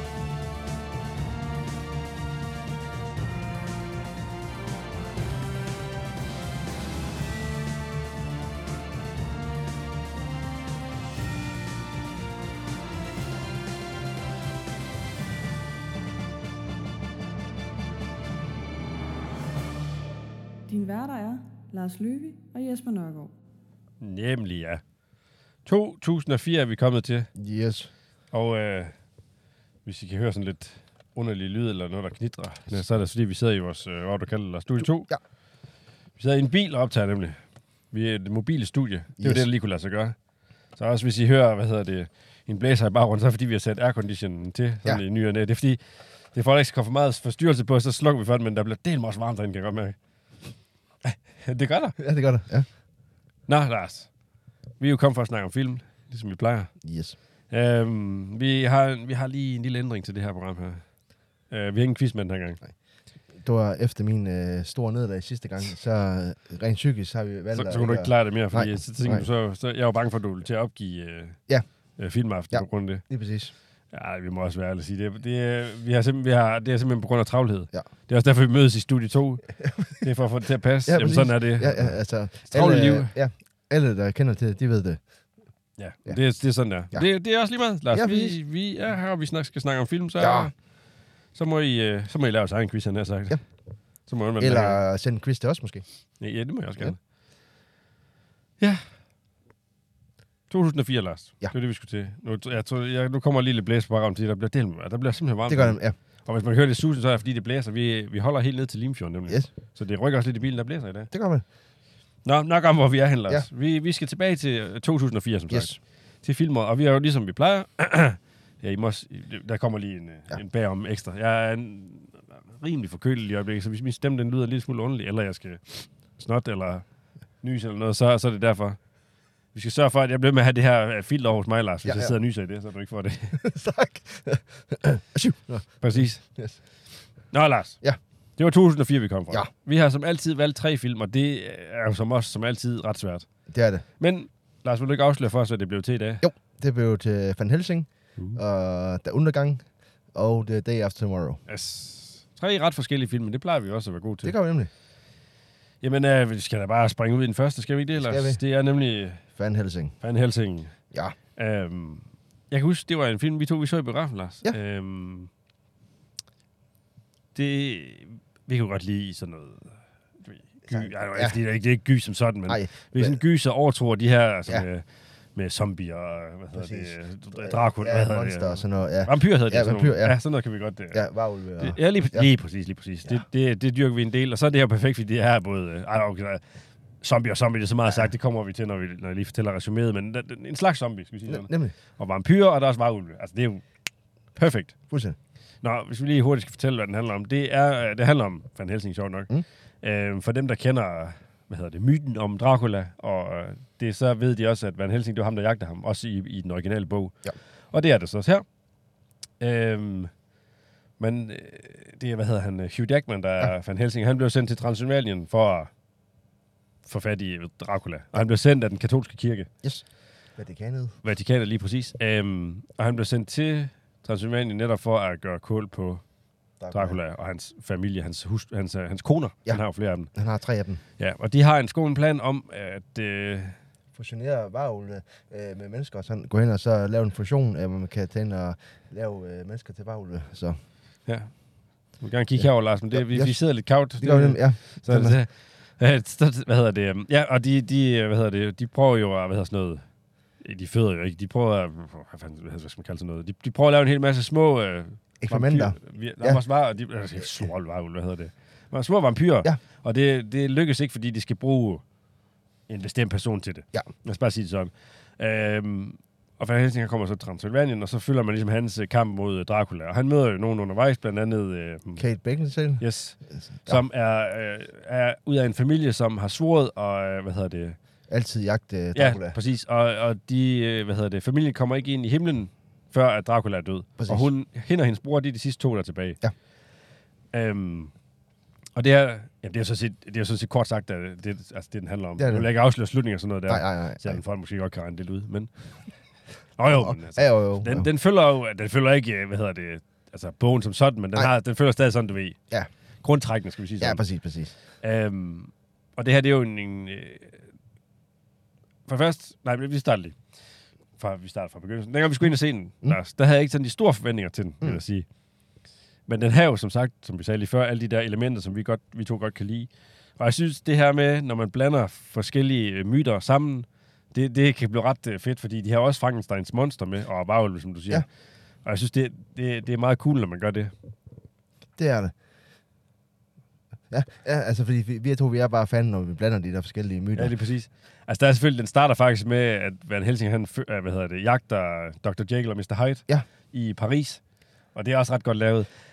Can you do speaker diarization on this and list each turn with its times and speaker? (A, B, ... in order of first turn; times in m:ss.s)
0:20.7-0:23.3 A
0:24.0-0:24.8 B
0:25.6-0:27.3 B
0:27.4-0:27.9 C
0:28.3-0:28.9 B
0:29.8-0:35.1 B
0:36.2-0:37.4 B
0:37.9-0:40.2 B
0:39.2-0:39.5 C
0:40.7-0:45.8 B
0:46.3-0:50.0 B
0:51.0-0:52.0 B
0:52.0-0:52.7 C
0:53.5-0:54.1 B
0:54.8-0:56.8 B
0:56.8-0:57.2 C
0:57.5-1:00.8 B
1:01.5-1:02.6 B
1:03.3-1:09.2 C
1:07.5-1:11.4 B
1:12.0-1:13.0 B
1:12.5-1:13.5 C
1:13.9-1:23.1 B
1:20.8-1:25.0 C
1:25.8-1:30.5 B
1:27.9-1:28.4 C
1:30.2-1:30.5 C
1:31.3-1:33.4 B
1:34.0-1:34.8 B
1:34.4-1:35.8 C
1:36.2-1:37.0 B
1:40.5-1:51.1 B
1:45.5-1:45.9 C
1:51.1-1:51.4 C
1:52.2-2:06.8 B
1:55.5-1:55.8 C
2:07.4-2:08.8 B
2:09.5-2:13.4 B
2:11.8-2:12.1 C
2:13.4-2:16.6 C
2:15.8-2:16.2 B
2:17.3-2:17.8 B
2:18.4-2:23.3 B
2:23.5-2:23.8 C
2:24.0-2:26.2 B
2:26.2-2:31.4 C
2:31.5-2:34.3 B
2:34.2-2:34.7 C
2:35.8-2:39.2 B
2:38.0-2:38.4 C
2:39.3-2:39.9 C
2:40.0-2:40.7 B
2:41.4-2:45.3 B
2:47.3-3:01.0 B
2:50.7-2:51.4 C
2:52.5-2:53.2 C
2:56.5-3:00.2 C
3:00.9-3:02.3 C
3:01.6-3:06.4 B
3:07.0-3:13.6 B
3:11.3-3:11.7 C
3:14.3-3:14.8 B
3:14.9-3:15.2 C
3:15.6-3:19.3 B
3:19.8-3:28.4 B
3:29.4-3:30.1 B
3:31.0-3:35.7 B
3:36.8-3:39.5 B
3:40.4-3:41.0 C
3:41.0-3:46.0 B
3:46.6-3:47.0 C
3:46.7-3:50.1 B
3:50.1-3:50.8 C
3:51.0-3:53.6 B
3:53.9-4:00.6 C
4:01.0-4:09.8 B
4:02.4-4:03.4 C
4:04.0-4:05.2 C
4:10.4-4:21.8 B
4:15.2-4:16.4 C
4:22.7-4:32.0 B
4:32.0-4:32.8 C
4:32.8-4:37.8 B
4:33.4-4:33.8 C
4:38.1-4:39.3 C
4:38.9-4:46.2 B
4:44.0-4:44.2 C
4:47.3-4:47.9 B
4:48.8-4:55.5 B
4:52.2-4:52.4 C
4:53.5-4:54.2 C
4:56.6-5:02.4 B
4:56.7-4:57.8 C
5:03.0-5:04.0 B
5:03.8-5:04.5 C
5:04.8-5:07.4 B
5:08.9-5:10.2 B
5:11.0-5:15.0 B
5:16.1-5:28.1 B
5:28.6-5:30.7 B
5:31.8-5:32.1 C
5:33.9-5:37.3 C
5:37.1-5:44.2 B
5:44.7-5:45.7 B